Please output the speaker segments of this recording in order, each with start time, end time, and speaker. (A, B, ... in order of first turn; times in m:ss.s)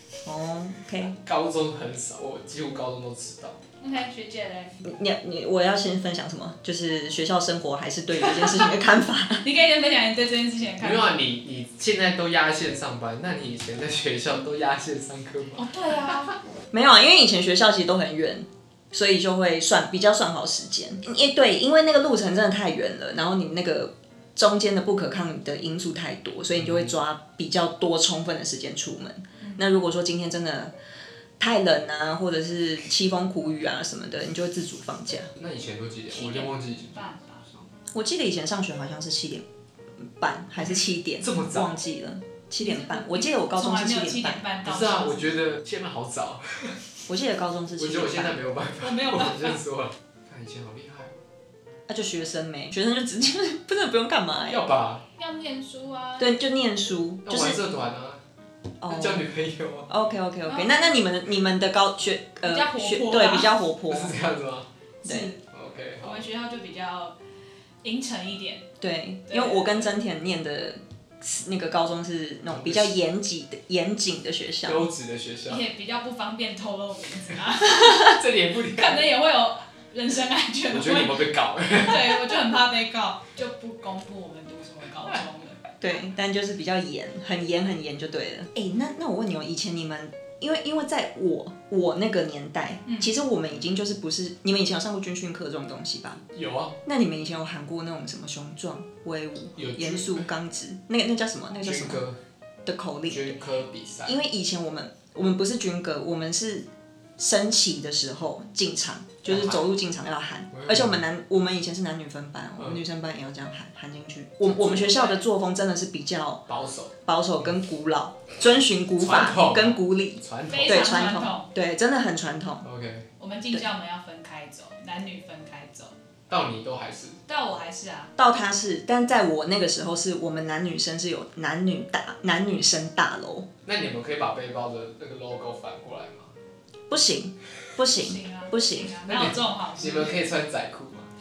0:00.2-0:01.2 A
0:01.2-0:03.6 B
0:03.8-0:04.8 C
0:04.8-0:09.4 A
0:09.4-0:11.2 C
0:10.8-0:16.3 B
0:15.6-0:16.3 C
0:16.7-0:30.7 A
0:26.6-0:26.9 B
0:29.4-0:29.6 C
0:31.4-0:35.3 A
0:35.4-0:36.9 B
0:36.1-0:37.5 C
0:37.9-0:39.4 A
0:40.0-0:44.4 A
0:41.2-0:41.7 B
0:42.6-0:45.3 C
0:44.6-0:46.8 B
0:47.1-0:48.4 A
0:47.8-0:51.2 B
0:48.8-0:49.6 C
0:51.9-0:54.6 A
0:54.5-0:55.0 B
0:55.2-0:56.3 C
0:56.2-0:57.6 A
0:57.2-0:58.2 B
0:58.8-0:59.3 A
0:58.8-0:59.9 B
0:59.9-1:04.2 A
1:00.4-1:01.0 C
1:02.4-1:03.5 C
1:03.9-1:04.7 B
1:05.0-1:05.4 C
1:05.0-1:05.3 A
1:05.5-1:06.2 B
1:06.0-1:07.2 C
1:07.8-1:08.7 C
1:08.8-1:14.8 A
1:09.3-1:09.9 C
1:12.5-1:13.0 B
1:14.6-1:15.6 B
1:15.5-1:21.2 C
1:17.6-1:19.1 B
1:20.7-1:22.4 B
1:21.8-1:25.6 C
1:25.8-1:36.2 A
1:32.8-1:33.2 C
1:36.3-1:36.8 B
1:36.8-1:42.0 A
1:39.6-1:40.3 B
1:41.6-1:42.2 B
1:42.6-1:43.4 A
1:43.1-1:44.2 B
1:44.0-1:56.5 A
1:49.2-1:49.7 B
1:50.5-1:51.0 B
1:52.6-1:52.8 B
1:54.5-1:54.9 B
1:54.6-1:55.2 C
1:56.5-1:56.9 B
1:57.0-2:02.7 A
1:59.0-2:01.1 B
2:00.5-2:01.5 C
2:02.6-2:03.1 B
2:03.2-2:05.9 C
2:06.3-2:07.2 B
2:07.3-2:08.1 C
2:08.2-2:13.5 A
2:13.6-2:16.3 B
2:16.9-2:19.0 A
2:17.9-2:20.1 C
2:19.1-2:21.1 B